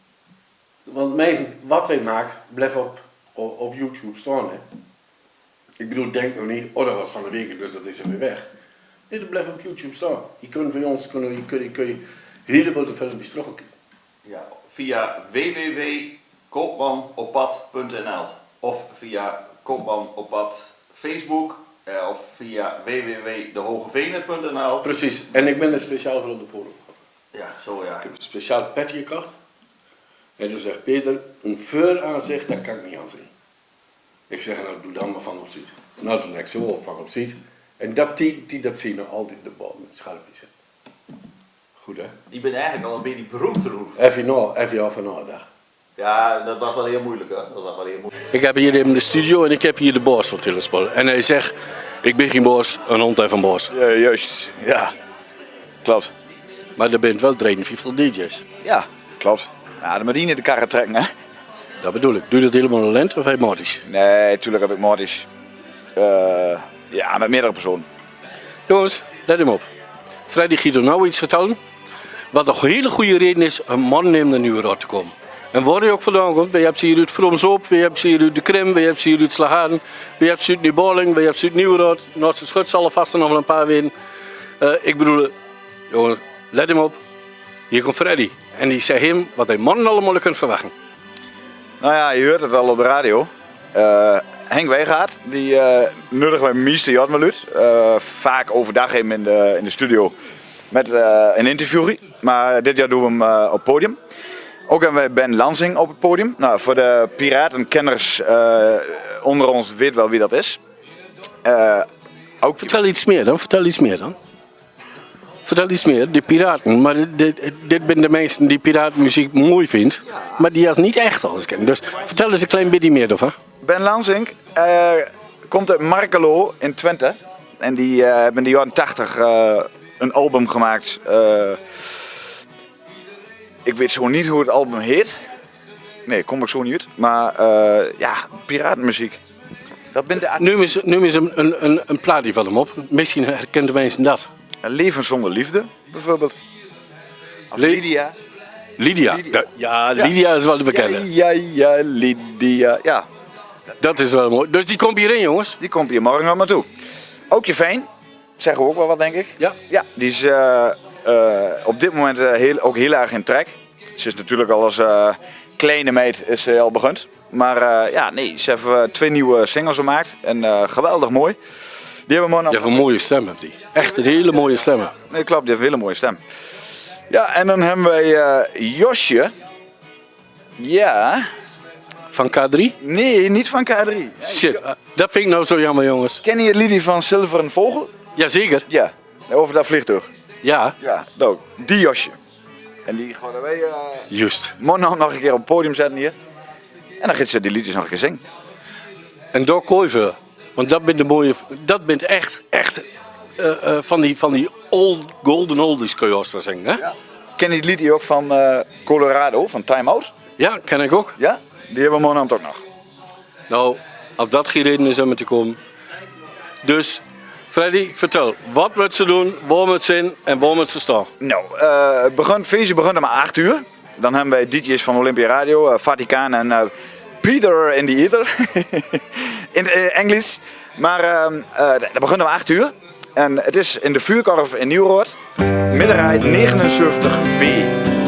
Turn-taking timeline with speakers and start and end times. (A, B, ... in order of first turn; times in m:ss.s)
0:00.8-0:04.6 A
0:05.8-0:08.4 A
0:09.1-0:13.6 A
0:14.2-0:24.9 B
0:24.8-0:26.9 A
0:27.3-0:28.0 B
0:28.0-0:29.3 A
0:30.4-0:33.3 A
0:34.3-0:40.5 A
0:41.8-0:42.1 A
0:42.3-0:44.0 B
0:44.0-0:45.5 A
0:46.0-0:48.1 B
0:48.3-0:53.7 A
0:53.7-0:54.9 C
0:55.8-0:56.1 C
0:56.8-0:58.4 A
0:58.6-1:01.1 C
1:01.8-1:03.8 A
1:03.9-1:05.3 C
1:06.0-1:07.8 C
1:08.7-1:09.7 A
1:10.3-1:11.6 A
1:12.3-1:23.9 A
1:24.6-1:25.3 A
1:25.9-1:27.0 A
1:27.7-1:30.7 A
1:31.8-1:40.1 C
1:40.7-1:44.0 C
1:44.7-1:50.6 C
1:51.4-1:51.9 C
1:52.4-1:52.8 C
1:52.6-1:54.2 A
1:55.4-2:03.3 A
2:03.6-2:11.6 C
2:13.6-2:15.2 C
2:16.1-2:19.2 C
2:19.9-2:20.8 C
2:20.3-2:24.3 A
2:24.6-2:26.4 C
2:27.5-2:28.2 C
2:27.6-2:27.8 A
2:28.8-2:31.1 A
2:29.1-2:30.1 C
2:30.7-2:33.1 C
2:33.8-2:35.6 A
2:35.6-2:36.7 C
2:37.3-2:37.9 C
2:38.4-2:51.4 C
2:52.1-2:52.8 C
2:52.5-2:54.9 A
2:54.9-2:56.2 C
2:57.1-2:59.3 C
3:00.6-3:01.3 C
3:02.1-3:02.8 A
3:02.8-3:04.6 C
3:04.2-3:06.2 A
3:06.2-3:07.9 C
3:08.1-3:08.7 A
3:08.7-3:10.1 C
3:10.4-3:10.8 A
3:10.8-3:12.1 C
3:12.8-3:14.1 C
3:14.1-3:14.6 A
3:14.6-3:16.1 C
3:17.0-3:18.2 C
3:19.3-3:22.9 A
3:23.4-3:26.8 A
3:26.8-3:30.1 C
3:30.4-3:31.2 A
3:31.2-3:32.6 C
3:33.5-3:35.6 A
3:36.6-3:41.1 A
3:41.2-3:46.7 C
3:47.2-3:55.2 C
3:55.7-3:57.7 C